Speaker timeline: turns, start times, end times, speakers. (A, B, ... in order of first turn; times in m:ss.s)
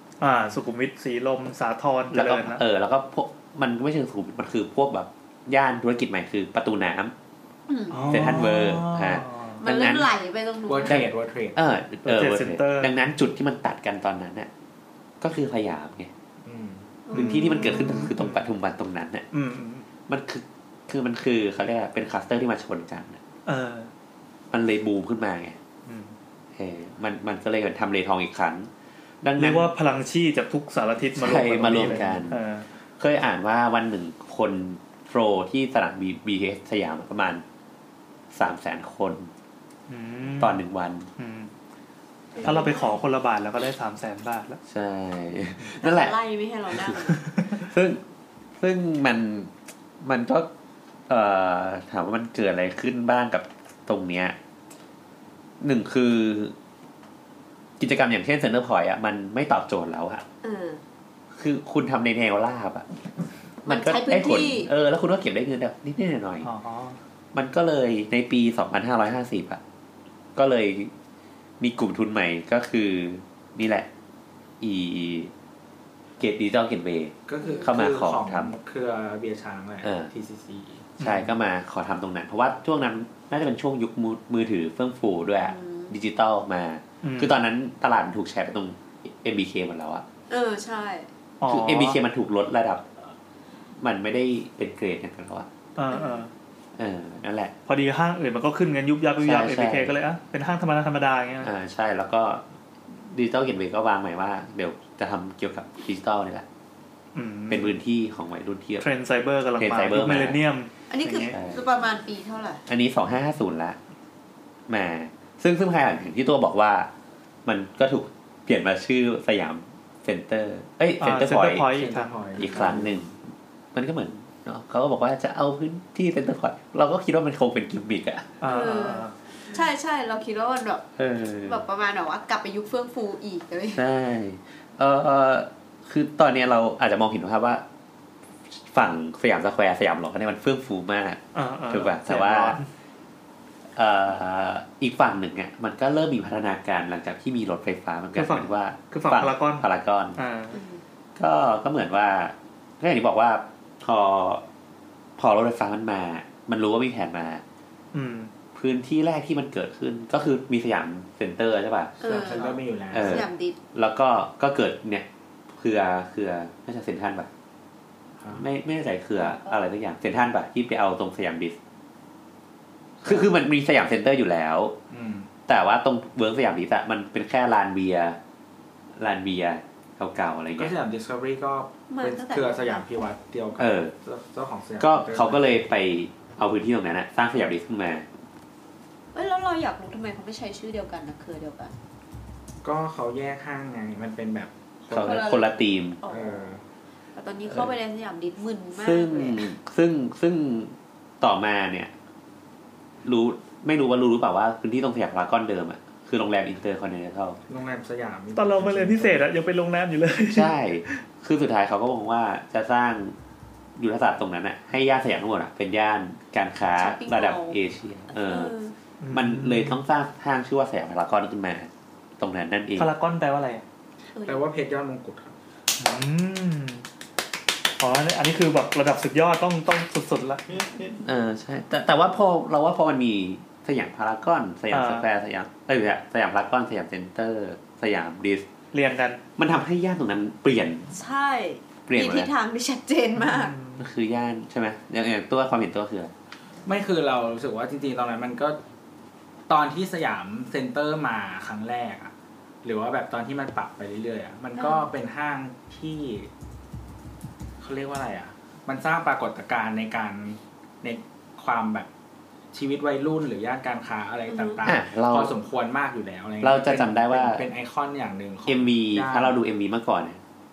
0:00.2-0:02.6 A
0:02.1-0:07.1 B
0:07.7-0:08.4 C
0:07.9-0:09.6 A
0:08.1-0:10.1 B
0:09.6-0:11.0 C
0:10.7-0:11.6 D
0:10.8-0:14.5 B
0:12.0-0:12.9 A
0:15.2-0:16.1 B
0:16.4-0:16.9 D
0:17.1-0:18.1 C
0:17.1-0:19.3 B
0:17.2-0:18.5 A
0:19.3-0:19.9 A
0:20.1-0:23.2 B
0:23.5-0:23.9 A
0:24.5-0:25.6 B
0:25.9-0:26.2 A
0:26.6-0:28.7 B
0:29.2-0:29.7 B
0:29.4-0:32.7 A
0:31.1-0:32.4 B
0:33.0-0:37.4 B
0:38.3-0:39.3 B
0:39.9-0:40.6 A
0:40.4-0:41.1 B
0:41.2-0:41.5 A
0:42.4-0:43.0 C
0:42.4-0:42.7 B
0:42.4-0:44.6 A
0:44.7-0:46.2 B
0:45.7-0:47.3 C
0:46.7-0:47.0 B
0:47.6-0:48.0 B
0:48.6-0:50.5 B
0:51.1-0:54.4 B
0:55.6-0:56.6 B
0:57.8-1:00.2 B
1:00.4-1:00.8 C
1:01.4-1:02.9 B
1:03.6-1:06.5 B
1:03.7-1:04.7 C
1:06.4-1:07.0 A
1:07.3-1:09.6 B
1:10.4-1:10.9 B
1:11.6-1:13.9 B
1:14.6-1:15.3 B
1:16.2-1:18.5 B
1:17.3-1:20.9 D
1:17.4-1:17.7 C
1:19.8-1:20.1 B
1:21.0-1:21.3 A
1:21.0-1:30.0 B
1:25.4-1:25.9 C
1:27.0-1:27.4 A
1:30.3-1:31.1 C
1:31.4-1:32.0 A
1:31.5-1:32.9 B
1:33.8-1:35.5 B
1:35.8-1:36.3 A
1:35.9-1:36.2 C
1:36.8-1:37.5 B
1:37.7-1:41.5 A
1:39.2-1:40.0 B
1:41.4-1:42.4 B
1:43.1-1:46.5 B
1:47.2-1:47.8 A
1:47.5-1:48.9 B
1:48.8-1:51.4 A
1:49.6-1:50.4 B
1:50.9-1:52.6 C
1:51.2-1:51.7 B
1:52.7-1:53.8 B
1:54.7-1:56.9 B
1:57.5-2:01.7 B
2:01.0-2:02.2 A
2:01.7-2:03.0 D
2:02.4-2:03.1 B
2:03.7-2:08.4 B
2:08.4-2:09.1 A
2:08.4-2:10.9 C
2:11.0-2:11.6 B
2:11.4-2:13.8 C
2:13.7-2:17.6 B
2:18.5-2:22.6 B
2:21.4-2:22.7 A
2:23.8-2:30.2 B
2:28.2-2:29.6 A
2:30.2-2:30.6 A
2:30.5-2:30.8 C
2:31.2-2:34.4 B
2:35.2-2:37.4 B
2:37.9-2:38.3 A
2:38.6-2:42.4 B
2:42.0-2:43.6 C
2:42.0-2:43.3 D
2:42.9-2:47.3 B
2:48.2-2:48.4 D
2:48.3-2:51.6 B
2:49.2-2:49.6 C
2:53.0-2:53.3 D
2:53.0-2:54.8 B
2:54.9-2:55.3 D
2:55.5-2:58.2 B
2:59.0-3:00.7 B
3:00.6-3:05.5 D
3:01.9-3:02.8 C
3:03.6-3:03.9 B
3:04.8-3:08.1 B
3:09.1-3:11.7 C
3:12.6-3:15.4 D
3:14.9-3:16.5 C
3:14.9-3:16.0 B
3:16.1-3:16.6 D
3:17.2-3:19.4 C
3:17.5-3:17.7 B
3:18.7-3:21.9 B
3:23.0-3:27.4 B
3:27.5-3:29.3 D
3:28.4-3:31.0 A
3:30.3-3:33.2 B
3:33.8-3:38.5 B
3:36.8-3:37.6 C
3:38.1-3:38.7 C
3:39.0-3:39.8 A
3:39.1-3:42.9 B
3:42.8-3:43.6 A
3:44.2-3:44.4 C
3:44.2-3:45.3 D
3:45.8-3:46.8 A
3:47.8-3:50.9 A
3:51.0-3:58.5 B
3:54.7-3:55.1 A
3:58.7-3:59.2 A
3:59.4-4:00.9 B
4:00.9-4:03.6 C
4:01.9-4:02.3 B
4:03.2-4:03.8 A
4:03.8-4:06.1 B
4:06.7-4:08.6 D
4:09.5-4:12.1 D
4:12.6-4:16.3 D
4:14.6-4:14.9 C
4:17.6-4:21.9 D
4:22.5-4:29.4 D
4:24.3-4:24.6 C
4:24.6-4:25.3 B
4:26.4-4:27.4 B
4:28.5-4:30.2 B